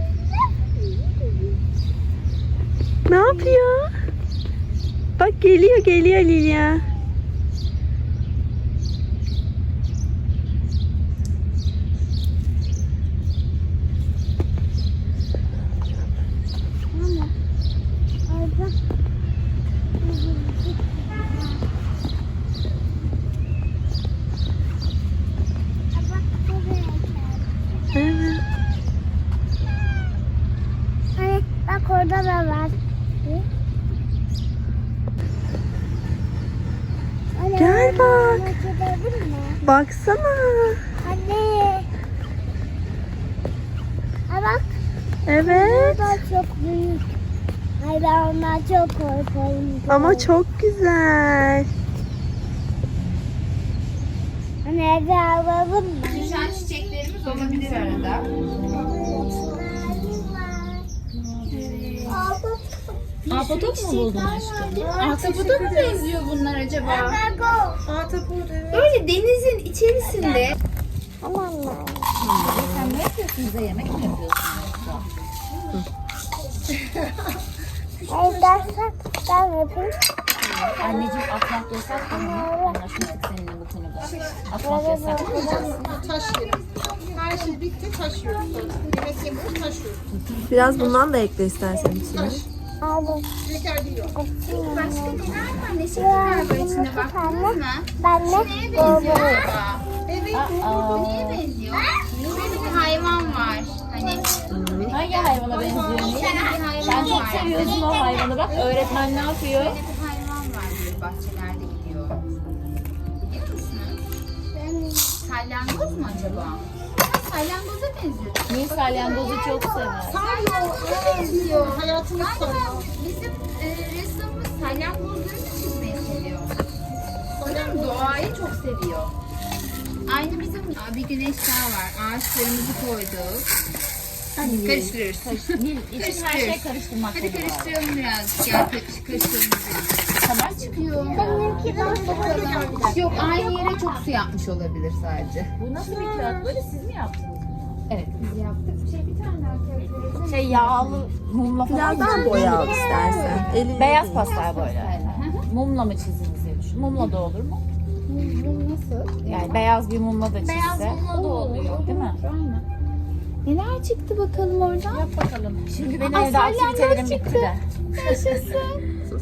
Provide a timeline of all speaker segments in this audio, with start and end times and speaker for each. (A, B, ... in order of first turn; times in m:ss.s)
0:03.1-0:03.9 A
0:03.1-0:03.6 B
0:05.2-0:06.8 A
0:16.9-0:17.3 B
0:18.3-0:18.8 B
0:20.0-0:21.6 B
0:25.9-0:27.6 B
0:27.9-0:28.4 A
0:31.2-0:33.4 B
0:37.3-0:39.6 B
0:37.6-0:38.5 A
0:39.6-0:40.8 A
0:41.0-0:41.9 B
0:44.3-0:44.8 B
0:45.2-0:46.2 A
0:45.4-0:47.0 B
0:47.8-0:50.3 B
0:49.9-0:51.7 A
0:54.6-0:56.9 B
0:56.0-0:58.3 C
0:58.7-1:00.9 B
1:01.1-1:02.2 D
1:01.5-1:02.2 C
1:02.1-1:03.0 B
1:03.2-1:07.2 C
1:03.3-1:04.9 D
1:04.8-1:06.1 E
1:06.8-1:07.8 B
1:07.9-1:08.9 E
1:08.7-1:10.6 C
1:11.2-1:12.1 B
1:12.2-1:15.1 D
1:12.2-1:13.0 A
1:18.1-1:20.0 B
1:20.6-1:25.8 D
1:22.0-1:22.8 B
1:24.6-1:26.0 B
1:25.3-1:30.0 E
1:25.8-1:27.6 C
1:30.5-1:32.4 A
1:32.1-1:32.4 E
1:32.8-1:33.2 B
1:33.4-1:34.1 E
1:34.1-1:35.3 B
1:34.4-1:39.9 C
1:35.9-1:39.5 B
1:40.0-1:40.8 E
1:40.3-1:41.4 D
1:40.8-1:48.0 C
1:43.0-1:43.3 D
1:44.5-1:44.9 A
1:44.9-1:49.8 D
1:45.5-1:46.1 E
1:46.8-1:48.3 B
1:48.5-1:48.8 E
1:49.5-1:52.3 C
1:53.2-1:54.0 C
1:54.5-1:55.2 B
1:55.1-1:59.2 C
1:58.5-2:00.3 D
1:59.0-2:00.0 B
2:00.0-2:02.9 E
2:00.1-2:06.6 C
2:07.4-2:08.1 E
2:07.4-2:09.1 C
2:10.0-2:13.5 C
2:14.4-2:17.8 D
2:14.4-2:25.5 C
2:20.2-2:23.5 D
2:21.1-2:24.0 B
2:21.6-2:23.3 E
2:25.6-2:27.8 D
2:25.8-2:26.5 B
2:27.9-2:31.1 C
2:30.2-2:32.9 D
2:31.6-2:34.3 A
2:32.2-2:35.4 C
2:33.7-2:37.6 D
2:38.1-2:39.6 C
2:39.2-2:42.2 D
2:40.4-2:42.6 C
2:43.4-2:45.0 C
2:44.9-2:48.5 D
2:46.0-2:48.8 C